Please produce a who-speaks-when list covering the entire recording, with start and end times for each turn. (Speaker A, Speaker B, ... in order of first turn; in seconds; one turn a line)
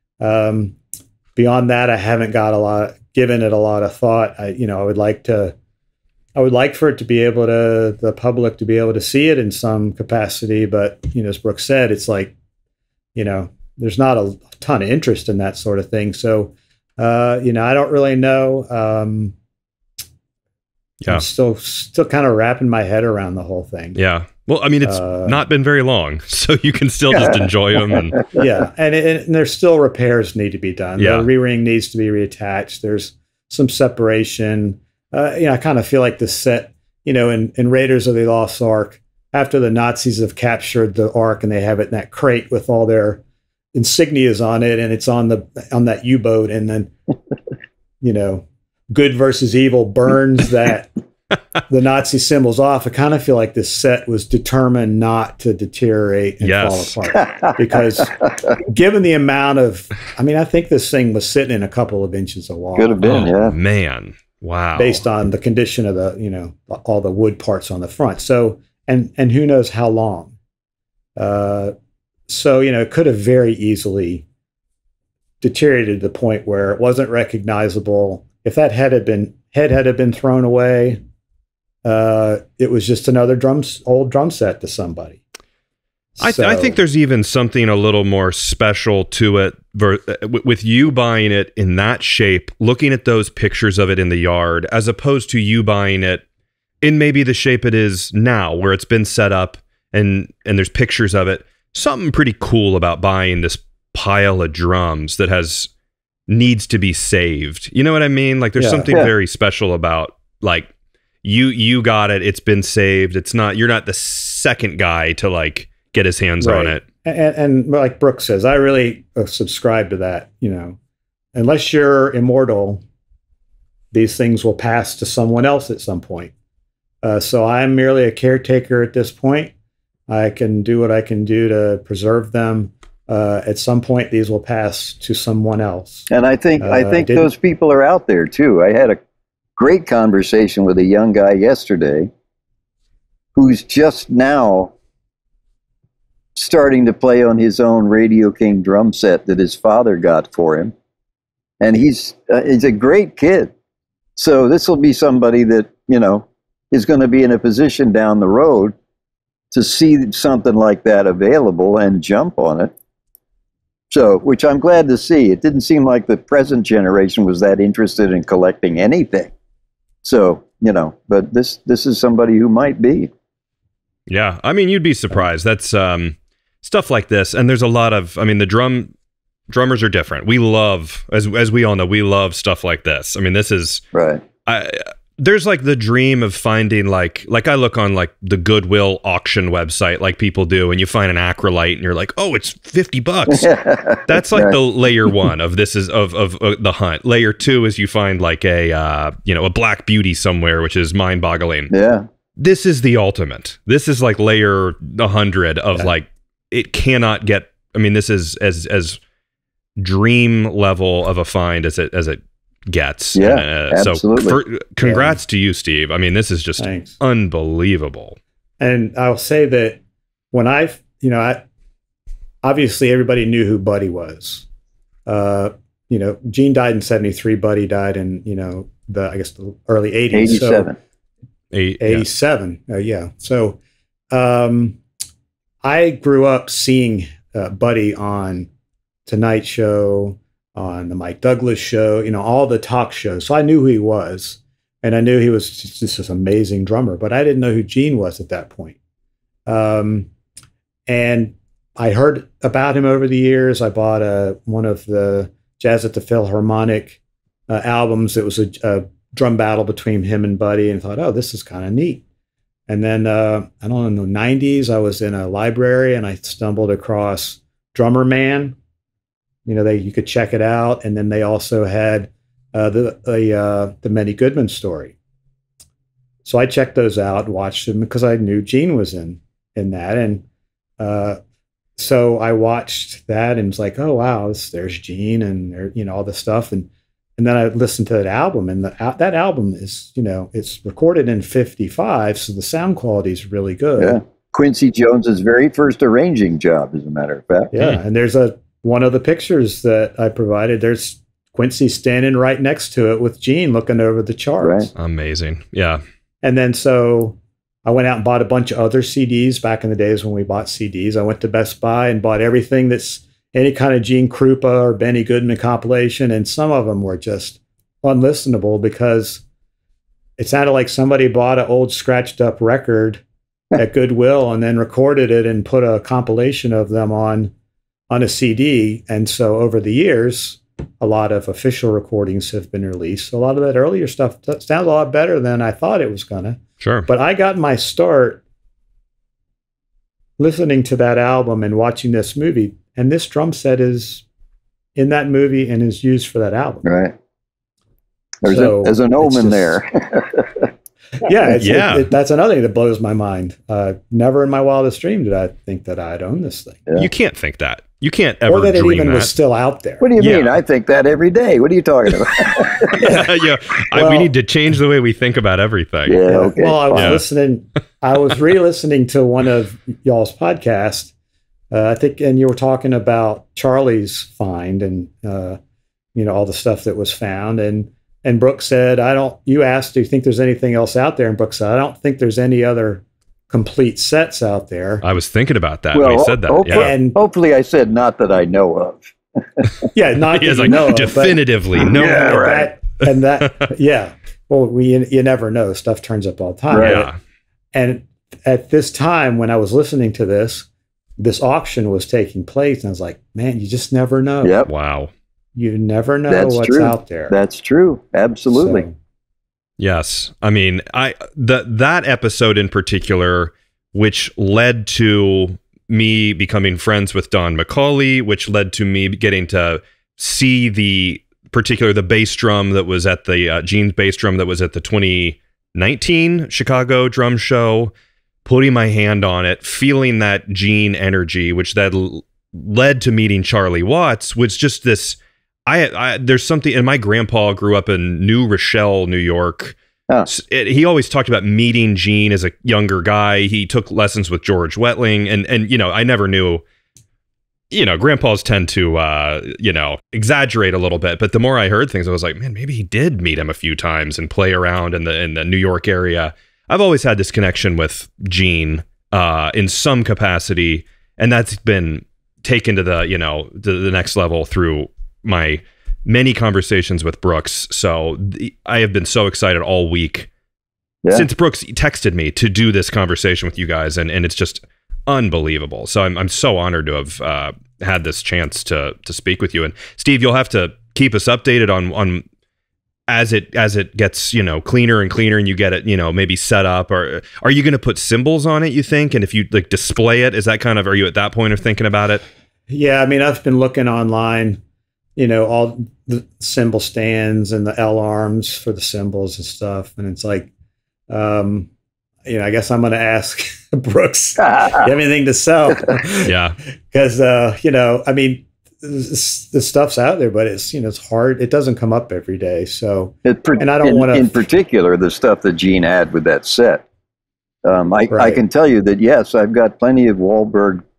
Speaker A: 0.2-0.8
Speaker A: 1.4-5.5
Speaker A: 6.3-12.3
Speaker A: 13.1-19.3
Speaker A: 21.1-24.0
Speaker B: 23.9-28.2
Speaker A: 24.8-25.4
Speaker C: 27.9-28.2
Speaker A: 28.3-43.2
Speaker B: 31.0-31.3
Speaker A: 43.7-46.9
Speaker A: 48.0-50.9
Speaker A: 51.7-63.3
Speaker B: 56.4-57.0
Speaker C: 57.1-58.1
Speaker C: 62.8-63.5
Speaker B: 63.0-65.0
Speaker A: 64.8-70.3
Speaker A: 71.2-71.7
Speaker A: 72.3-74.2
Speaker A: 75.4-81.0
Speaker A: 81.8-85.2
Speaker A: 86.2-86.8
Speaker B: 86.2-96.2
Speaker B: 96.8-105.7
Speaker B: 106.3-110.7
Speaker A: 108.6-108.9
Speaker B: 111.2-116.8
Speaker A: 116.4-120.8
Speaker A: 121.3-122.8
Speaker A: 123.9-126.3
Speaker A: 127.0-129.5
Speaker A: 130.1-136.1
Speaker C: 136.1-139.0
Speaker A: 136.6-137.3
Speaker C: 139.6-142.1
Speaker C: 143.3-144.7
Speaker C: 146.3-150.7
Speaker C: 151.6-153.5
Speaker C: 154.2-158.7
Speaker C: 159.5-162.7
Speaker C: 163.9-169.3
Speaker C: 170.0-173.1
Speaker B: 174.1-178.9
Speaker B: 179.5-183.8
Speaker C: 183.9-184.2
Speaker B: 184.4-193.5
Speaker C: 193.3-194.6
Speaker B: 194.1-201.7
Speaker C: 201.7-202.1
Speaker B: 202.4-209.0
Speaker B: 209.8-218.2
Speaker C: 213.1-214.4
Speaker A: 214.8-215.2
Speaker A: 216.6-217.0
Speaker A: 218.6-219.8
Speaker A: 220.3-221.4
Speaker A: 222.4-224.4
Speaker A: 225.1-230.7
Speaker C: 230.1-230.8
Speaker B: 231.5-232.1
Speaker A: 231.8-233.6
Speaker A: 234.1-234.8
Speaker A: 235.6-238.5
Speaker A: 239.1-248.8
Speaker A: 249.4-250.1
Speaker A: 250.9-262.0
Speaker A: 262.7-268.6
Speaker A: 269.4-274.9
Speaker A: 276.2-280.2
Speaker A: 280.8-281.2
Speaker A: 281.8-294.0
Speaker C: 293.8-297.5
Speaker A: 297.5-304.7
Speaker C: 304.4-304.7
Speaker B: 304.8-305.8
Speaker A: 306.2-319.2
Speaker A: 320.2-323.0
Speaker A: 323.6-327.3
Speaker A: 327.9-338.2
Speaker B: 336.6-336.9
Speaker A: 340.2-344.0
Speaker A: 344.7-346.6
Speaker C: 346.6-346.9
Speaker C: 348.2-350.5
Speaker A: 348.2-349.6
Speaker A: 351.0-356.6
Speaker B: 351.4-351.8
Speaker B: 356.8-359.1
Speaker A: 358.3-359.9
Speaker C: 359.8-362.8
Speaker B: 360.0-360.3
Speaker B: 362.7-366.0
Speaker A: 362.8-363.1
Speaker A: 363.7-364.1
Speaker C: 365.9-367.0
Speaker A: 366.1-370.9
Speaker B: 366.7-367.0
Speaker A: 371.5-375.4
Speaker A: 375.9-384.8
Speaker B: 384.8-386.7
Speaker C: 385.7-389.6
Speaker A: 386.5-387.0
Speaker A: 389.7-396.9
Speaker B: 390.1-392.4
Speaker C: 391.6-392.5
Speaker B: 393.2-393.5
Speaker C: 396.5-396.9
Speaker B: 396.6-397.0
Speaker A: 397.5-400.5
Speaker A: 401.0-404.4
Speaker C: 404.2-404.5
Speaker B: 404.5-404.9
Speaker A: 405.3-407.1
Speaker C: 406.1-408.6
Speaker A: 408.3-408.8
Speaker B: 409.6-427.7
Speaker B: 428.2-439.6
Speaker B: 440.1-446.4
Speaker B: 447.5-470.1
Speaker B: 470.9-482.0
Speaker B: 482.9-492.0
Speaker A: 492.5-494.4
Speaker A: 494.9-500.3
Speaker A: 500.9-501.5
Speaker A: 502.0-506.1
Speaker C: 504.2-504.6
Speaker B: 506.0-506.4
Speaker A: 506.7-514.3
Speaker C: 513.0-516.6
Speaker C: 517.4-520.6
Speaker A: 517.9-518.2